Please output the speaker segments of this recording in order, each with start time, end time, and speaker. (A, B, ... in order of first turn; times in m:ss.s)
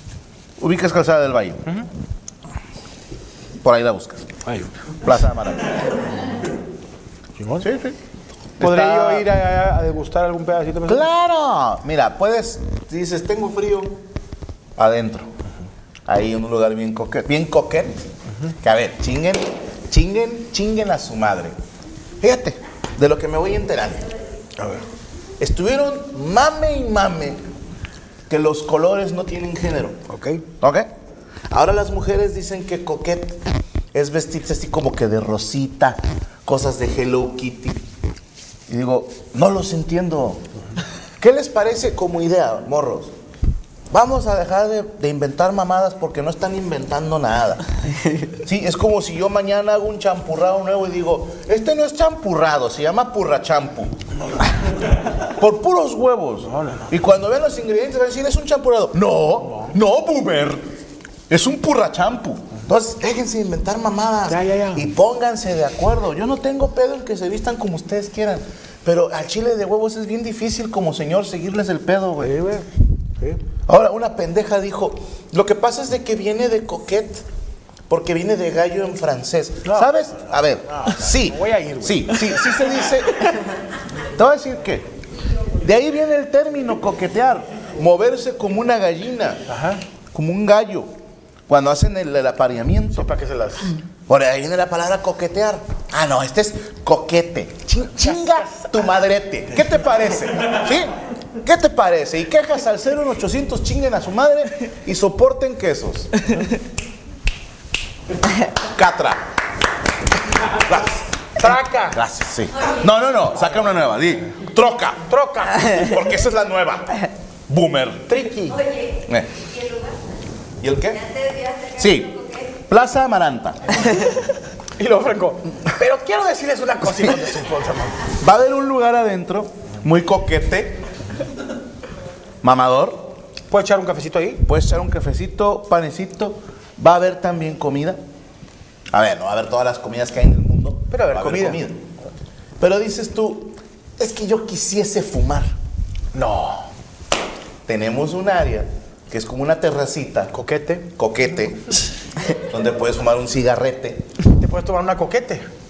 0:00.6-0:01.7 A
0:03.6-0:04.3 A
0:04.4-0:04.7 B
0:05.0-0:05.9 A
0:07.4-0:07.7 B
0:07.6-0:08.0 A
0:08.6-0:09.3 A
0:08.6-0:11.0 B
0:10.8-0:14.0 A
0:14.8-0:15.3 A
0:16.0-0:18.1 A
0:18.6-0:21.5 A
0:22.2-0:24.1 A
0:24.6-0:24.8 B
0:25.4-0:27.4 A
0:28.3-0:30.0 A
0:30.1-0:30.4 B
0:30.6-0:30.9 A
0:31.5-0:33.4 A
0:33.9-0:37.8 A
0:38.7-0:40.4 A
0:41.2-0:43.1 A
0:43.9-0:47.6 A
0:48.3-0:53.9 A
0:55.1-1:00.7 A
0:56.4-0:56.9 B
1:01.3-1:12.4 A
1:04.3-1:04.9 B
1:12.2-1:13.4 B
1:13.7-1:17.2 A
1:17.9-1:23.5 A
1:19.6-1:19.9 B
1:20.6-1:22.6 B
1:24.1-1:24.9 A
1:25.6-1:29.4 A
1:29.5-1:29.8 B
1:30.1-1:30.9 A
1:31.5-1:33.1 A
1:32.9-1:33.7 B
1:34.1-1:46.2 A
1:38.0-1:38.8 B
1:48.6-1:49.2 A
1:50.5-1:55.0 A
1:51.4-1:52.0 B
1:55.1-1:55.9 B
1:55.6-1:58.2 A
1:58.1-1:58.7 B
1:58.9-1:59.9 A
2:00.6-2:03.8 A
2:04.8-2:08.1 B
2:08.2-2:10.9 A
2:12.4-2:13.1 A
2:13.5-2:14.4 B
2:14.4-2:18.0 A
2:18.9-2:21.8 A
2:20.9-2:21.6 B
2:22.6-2:25.5 A
2:26.1-2:26.7 B
2:27.6-2:30.3 A
2:30.3-2:30.9 B
2:31.0-2:34.1 A
2:34.2-2:35.5 B